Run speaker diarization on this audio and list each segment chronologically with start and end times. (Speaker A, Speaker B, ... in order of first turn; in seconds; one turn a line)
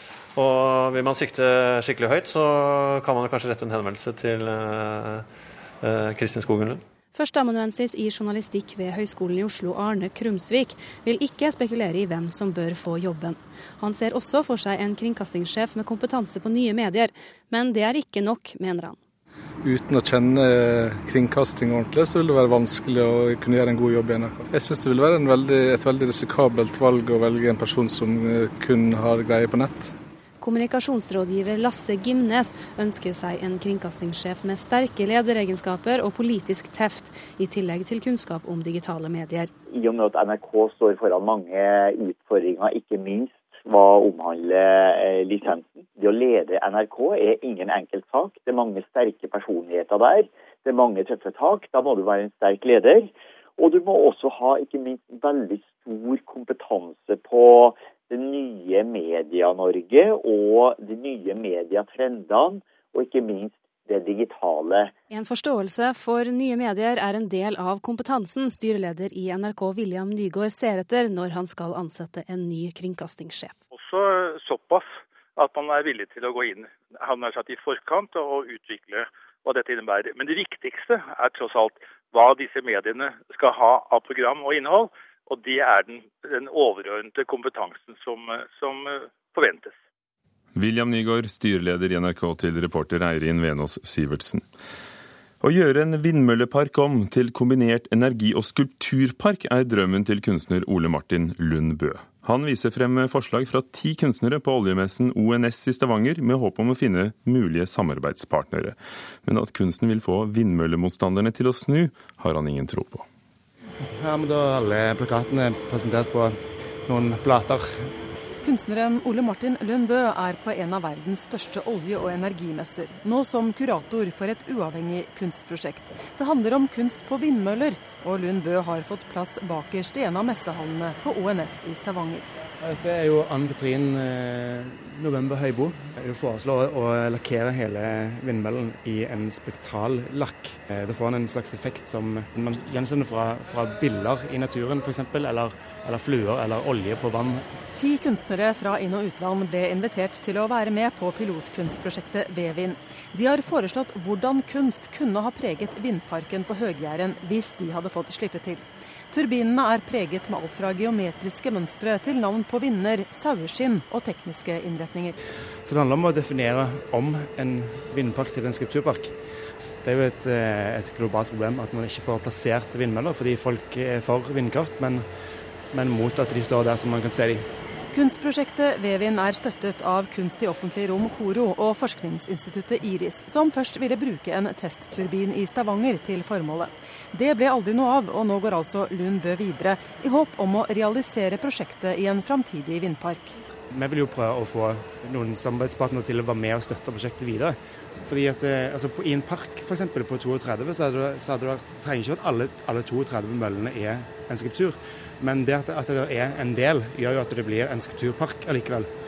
Speaker A: 0.3-5.2
Speaker A: 5.8-6.8
Speaker B: 7.1-19.0
Speaker C: 19.6-29.9
Speaker B: 30.4-39.5
Speaker D: 39.7-64.9
Speaker B: 65.1-73.6
Speaker E: 73.7-89.7
Speaker F: 90.5-94.4
Speaker F: 95.4-113.0
Speaker G: 114.0-116.3
Speaker G: 116.9-117.7
Speaker H: 118.4-132.2
Speaker G: 132.6-147.4
Speaker H: 147.8-165.1
Speaker G: 165.6-169.1
Speaker G: 169.8-175.0
Speaker G: 175.7-177.4
Speaker H: 177.9-193.4
Speaker G: 193.7-208.9